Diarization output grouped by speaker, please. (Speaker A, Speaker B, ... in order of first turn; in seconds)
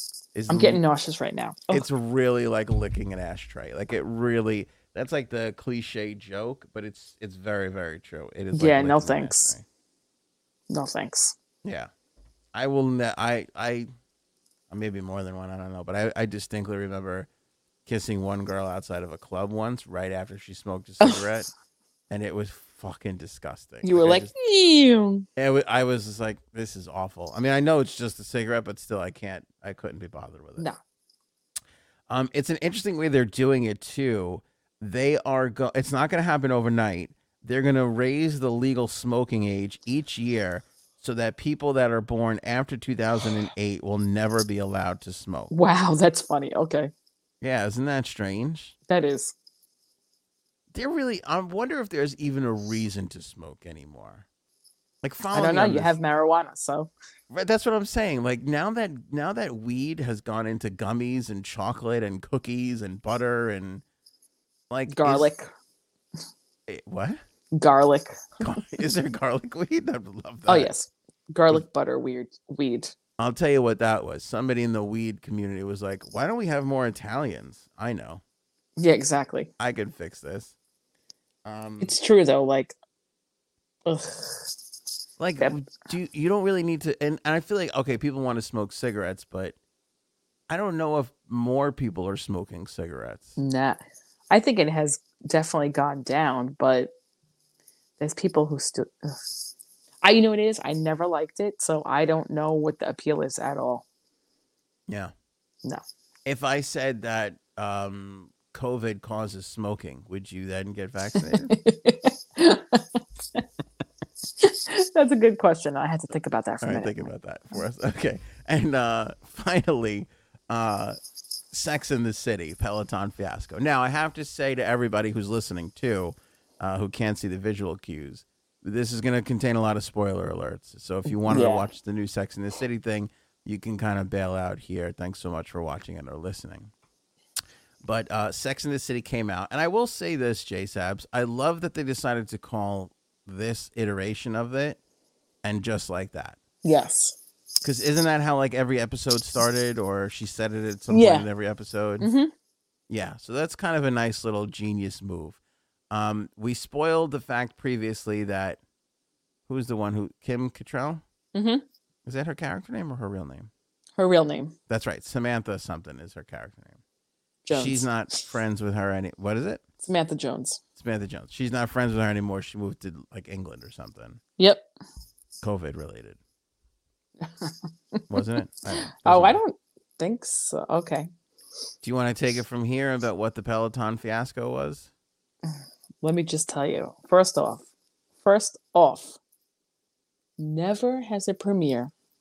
Speaker A: 0.3-0.8, 1.7-9.6, 11.6-11.9, 12.5-13.9, 14.7-17.3, 17.9-21.5, 22.1-24.3, 25.4-30.7, 32.1-45.5, 47.4-48.8, 50.7-54.2, 55.0-55.9, 57.3-63.8, 64.7-65.3, 66.7-67.2, 68.4-70.7, 73.2-78.2, 79.6-80.5, 81.4-82.0, 85.2-89.5, 90.5-93.3, 104.9-105.1, 106.2-111.5, 116.6-121.0, 121.5-136.7, 137.8-144.8, 145.4-146.4, 147.6-152.1, 152.9-155.4, 155.9-158.6, 159.5-161.0, 162.0-163.5, 164.7-166.8, 167.5-169.6, 170.8-174.2, 175.4-176.2, 178.1-179.4, 181.8-184.9
Speaker B: 0.5-1.9, 8.5-9.5, 10.7-11.3, 23.8-25.3, 45.5-46.9, 48.9-49.3, 55.3-56.9, 64.9-65.5, 67.5-68.2, 70.5-72.9, 78.8-79.5, 81.8-82.8, 83.8-84.5, 93.4-96.9, 98.0-99.2, 100.0-103.8, 111.5-113.4, 114.4-117.1, 131.1-131.7, 146.6-147.2, 150.9-151.2, 152.0-152.3, 161.3-161.6, 164.0-164.6, 167.4-167.9, 169.8-170.6, 174.4-174.7, 177.2-178.0, 178.7-181.1, 185.4-187.6, 188.2-189.2, 190.4-191.9